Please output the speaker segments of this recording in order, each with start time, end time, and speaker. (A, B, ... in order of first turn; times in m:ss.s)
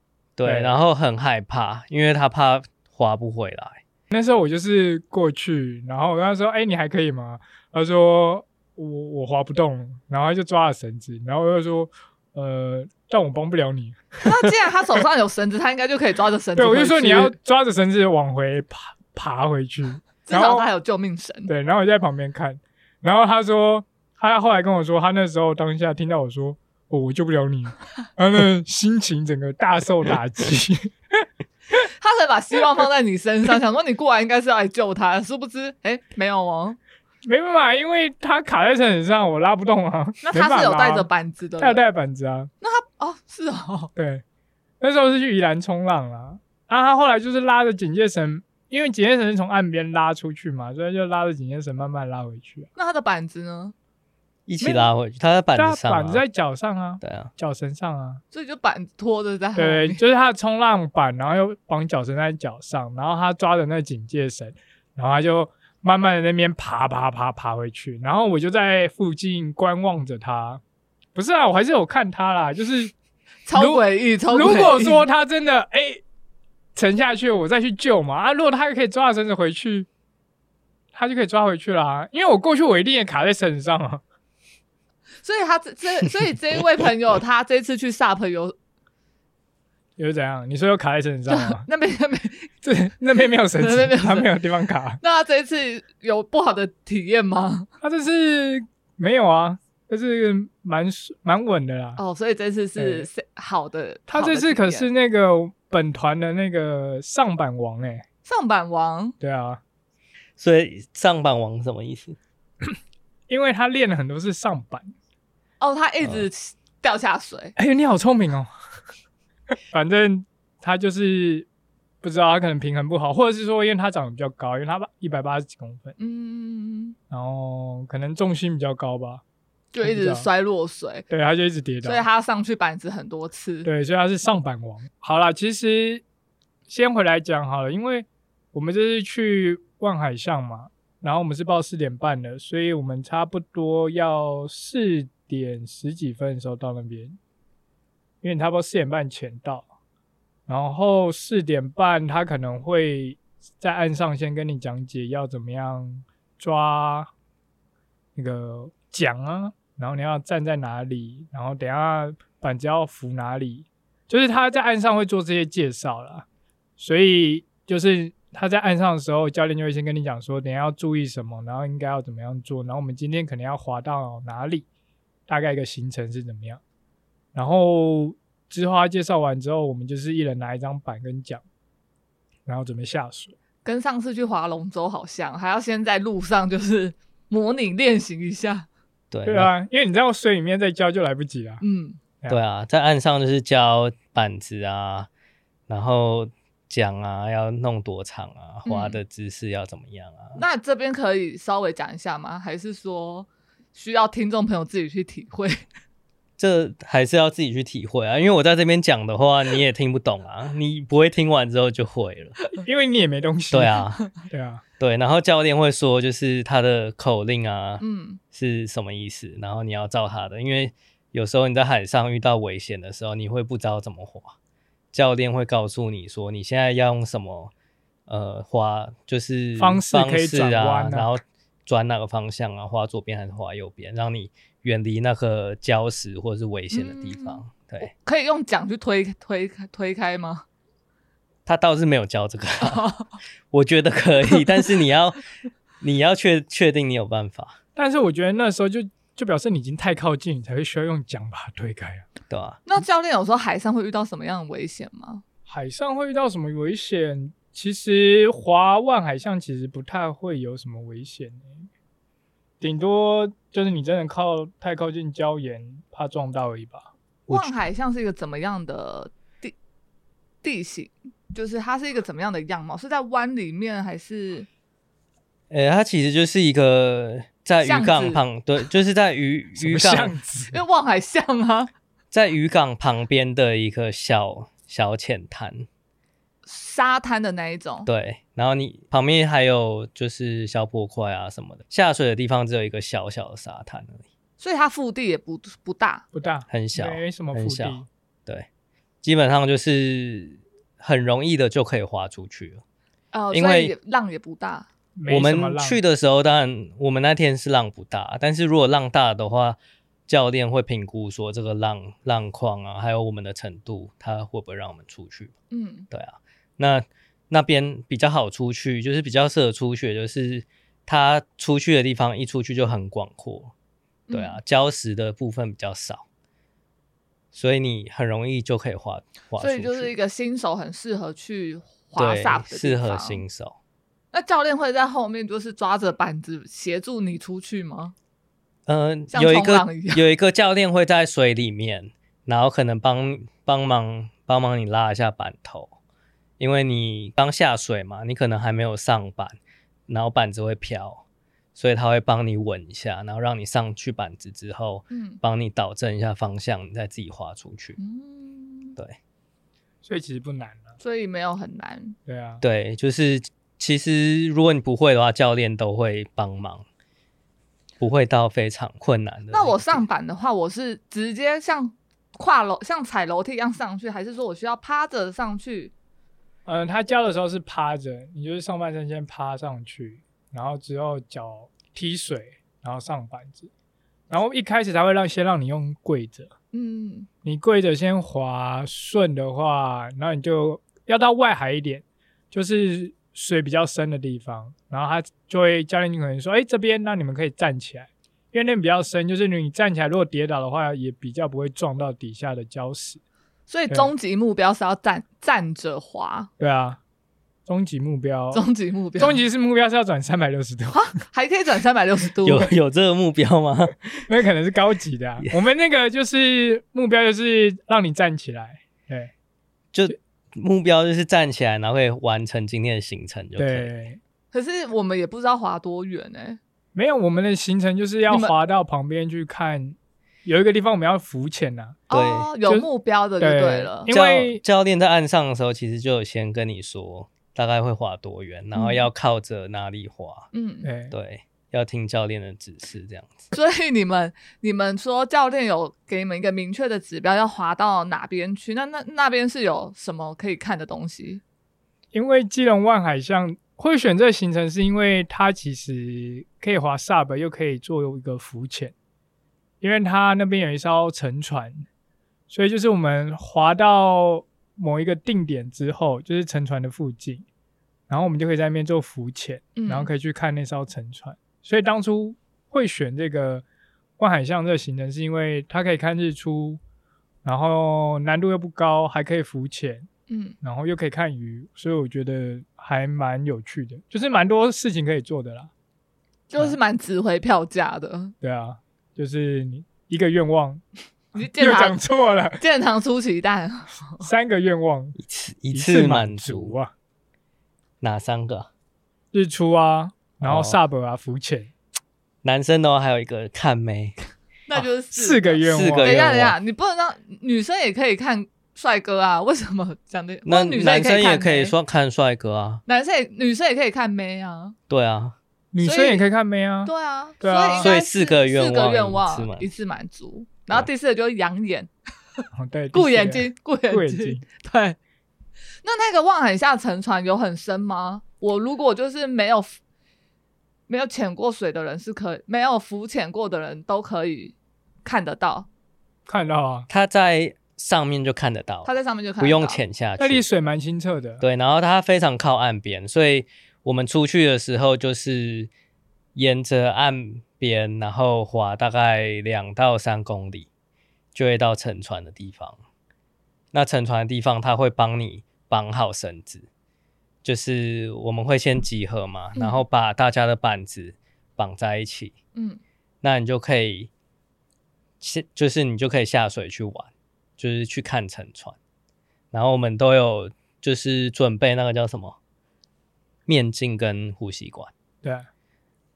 0:00.4-0:03.8 A
0:00.4-0:00.7 B
0:04.1-0:14.5 B
0:14.2-0:17.3 C
0:16.6-0:20.6 B
0:20.2-0:21.5 C
0:21.5-0:30.9 B
0:31.7-0:36.8 C
0:37.2-0:42.5 B
0:40.2-0:41.8 C
0:42.6-0:43.9 C
0:43.9-0:44.2 B
0:44.8-0:52.7 B
0:52.8-0:53.7 C
0:54.5-0:56.2 A
0:54.6-0:54.9 B
0:55.5-0:58.2 B
0:57.0-0:57.3 A
0:58.3-1:00.0 C
0:59.6-1:10.6 B
1:11.1-1:12.9 B
1:13.4-1:15.0 C
1:13.5-1:16.0 B
1:16.7-1:19.9 B
1:20.9-1:24.0 B
1:25.2-1:28.5 C
1:30.0-1:31.6 B
1:31.3-1:32.5 C
1:32.6-1:35.0 B
1:33.6-1:34.3 C
1:35.0-1:37.7 C
1:37.8-1:42.0 B
1:42.0-1:44.9 C
1:42.8-1:43.1 B
1:44.1-1:48.0 B
1:48.2-1:49.2 C
1:49.2-1:49.6 B
1:50.4-1:52.2 A
1:53.3-1:54.9 B
1:55.6-1:57.5 C
1:57.6-1:58.5 B
1:59.7-2:01.5 B
2:02.0-2:06.0 B
2:06.0-2:07.0 C
2:07.1-2:09.2 B
2:09.7-2:11.0 C
2:09.8-2:10.3 B
2:11.1-2:12.0 B
2:11.8-2:13.7 C
2:13.6-2:16.0 B
2:16.7-2:27.2 B
2:28.2-2:29.6 B
2:30.5-2:37.1 B
2:38.2-2:46.2 B
2:46.8-2:54.6 B
2:55.3-2:56.6 B
2:57.3-3:01.4 B
3:02.4-3:03.3 B
3:03.6-3:08.7 C
3:09.1-3:09.5 A
3:09.2-3:11.6 B
3:11.6-3:12.0 C
3:12.3-3:15.1 A
3:15.7-3:20.4 A
3:18.6-3:19.0 C
3:20.3-3:25.6 C
3:26.4-3:32.4 A
3:32.6-3:34.6 B
3:33.5-3:34.0 A
3:34.8-3:44.3 A
3:37.8-3:38.2 C
3:44.9-3:47.5 A
3:48.1-3:57.9 A
3:49.6-3:51.1 B
3:56.7-4:00.4 C
4:01.4-4:02.9 A
4:02.6-4:03.1 C
4:03.5-4:05.2 A
4:05.8-4:07.6 A
4:07.8-4:12.0 B
4:12.3-4:12.6 A
4:12.6-4:15.2 C
4:15.5-4:21.7 B
4:22.6-4:26.9 B
4:27.3-4:27.5 A
4:27.3-4:29.5 C
4:30.4-4:34.5 C
4:35.5-4:40.1 A
4:37.6-4:38.2 C
4:39.6-4:40.6 B
4:40.5-4:41.7 C
4:42.1-4:45.7 A
4:46.4-4:47.9 C
4:47.8-4:54.0 A
4:54.4-4:56.0 C
4:56.1-4:57.9 B
4:56.5-4:58.4 A
4:59.0-5:02.6 A
5:03.1-5:04.7 C
5:03.3-5:03.7 A
5:05.0-5:05.8 B
5:05.1-5:15.3 A
5:15.5-5:15.9 C
5:15.9-5:23.5 A
5:24.1-5:24.4 C
5:24.1-5:26.0 A
5:27.3-5:29.9 A
5:29.4-5:33.2 C
5:32.0-5:33.6 A
5:34.1-5:37.9 C
5:38.7-5:45.7 A
5:39.1-5:40.0 C
5:46.4-5:49.4 A
5:49.9-5:51.0 A
5:51.5-5:57.8 A
5:54.9-5:55.2 C
5:57.8-5:58.8 C
5:59.8-6:00.8 B
6:00.8-6:02.0 C
6:02.0-6:02.4 B
6:02.4-6:06.6 A
6:07.8-6:09.8 A
6:09.3-6:15.7 C
6:16.4-6:23.5 B
6:24.1-6:26.3 B
6:26.5-6:27.1 C
6:27.2-6:43.0 B
6:43.5-6:46.3 C
6:46.4-6:46.8 B
6:47.4-6:48.4 B
6:48.3-6:49.2 C
6:49.0-6:50.8 B
6:50.7-6:52.5 C
6:52.2-6:54.1 A
6:54.1-6:59.1 B
6:59.7-7:03.7 A
7:03.4-7:04.0 B
7:04.3-7:06.4 C
7:06.7-7:11.8 B
7:08.1-7:08.3 C
7:11.9-7:13.9 C
7:11.9-7:12.3 A
7:13.2-7:14.4 B
7:13.9-7:20.3 A
7:18.5-7:18.8 C
7:20.3-7:20.7 C
7:20.6-7:20.9 B
7:20.9-7:23.2 A
7:23.3-7:31.2 C
7:31.9-7:38.7 B
7:39.6-7:41.7 B
7:42.3-7:47.2 B
7:47.9-7:53.4 B
7:49.6-7:49.9 C
7:54.0-7:56.6 B
7:57.2-7:59.9 B
8:00.1-8:00.4 C
8:00.4-8:05.5 B
8:06.3-8:08.1 C
8:08.2-8:10.6 B
8:11.1-8:11.8 C
8:11.1-8:12.4 B
8:12.4-8:14.0 C
8:14.0-8:15.0 B
8:15.0-8:16.5 A
8:15.5-8:16.7 B
8:17.8-8:18.5 A
8:19.1-8:21.5 B
8:20.2-8:20.6 A
8:22.2-8:24.0 A
8:24.5-8:31.5 C
8:24.9-8:26.0 B
8:25.4-8:26.4 A
8:30.2-8:32.6 A
8:32.6-8:34.6 C
8:34.7-8:35.1 A
8:35.5-8:37.7 B
8:35.6-8:36.0 C
8:36.6-8:41.7 C
8:37.6-8:39.5 A
8:42.3-8:44.2 B
8:42.7-8:44.8 C
8:45.6-8:49.6 C
8:50.7-8:55.5 C
8:56.1-8:56.7 B
8:56.7-9:00.2 A
8:58.6-8:59.6 C
9:00.0-9:01.2 B
9:01.2-9:05.5 A
9:06.1-9:10.5 A
9:11.1-9:12.6 A
9:13.5-9:16.5 A
9:17.2-9:22.1 A
9:19.4-9:19.6 C
9:22.3-9:22.6 C
9:23.0-9:23.9 A
9:25.0-9:28.6 A
9:29.3-9:32.2 A
9:33.3-9:34.7 A
9:35.0-9:35.3 B